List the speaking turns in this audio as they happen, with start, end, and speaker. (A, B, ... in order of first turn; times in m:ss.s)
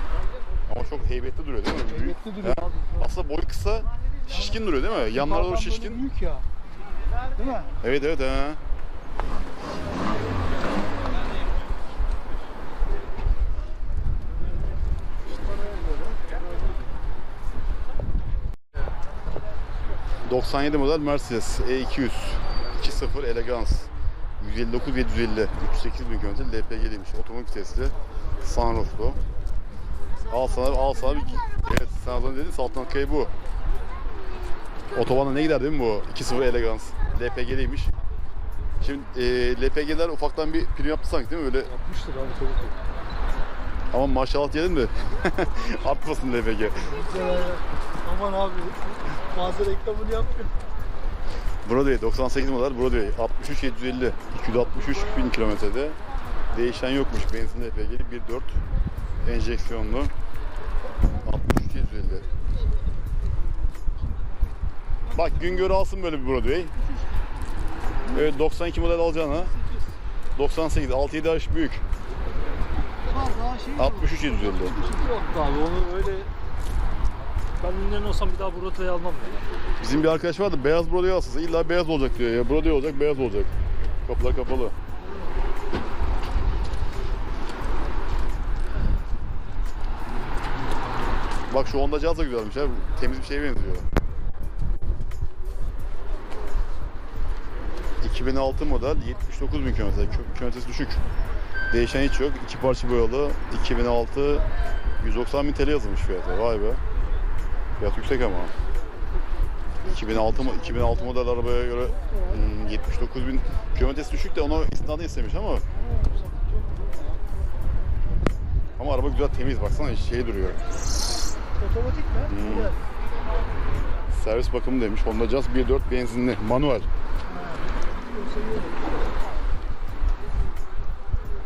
0:00.7-0:06.0 A
0:01.9-0:03.0 B
0:04.3-0:04.6 B
0:05.1-0:06.4 B
0:07.4-0:07.7 B
0:07.8-0:08.6 A
0:20.2-0:23.9 A
0:24.4-0:29.2 A
0:30.3-0:33.3 A
0:34.9-0:37.9 A
0:38.8-0:41.7 A
0:41.6-0:42.8 C
0:43.9-0:46.9 A
0:46.9-0:50.5 B
0:51.6-0:56.0 A
0:56.5-0:58.6 A
0:59.2-1:00.1 A
1:01.2-1:02.2 A
1:05.1-1:06.7 A
1:08.1-1:09.5 A
1:10.4-1:11.8 A
1:13.1-1:15.1 B
1:13.8-1:14.8 A
1:15.1-1:16.3 C
1:17.6-1:19.5 C
1:19.8-1:23.5 A
1:24.0-1:24.7 A
1:31.5-1:33.9 A
1:38.0-1:41.0 A
1:41.7-1:44.4 A
1:45.0-1:46.8 A
1:47.8-1:48.5 A
1:49.8-1:51.1 B
1:49.9-1:55.6 A
1:51.9-1:52.3 B
1:55.8-1:57.2 B
1:58.8-2:00.6 A
2:01.6-2:02.8 B
2:02.3-2:02.7 A
2:04.1-2:06.9 A
2:07.3-2:08.9 B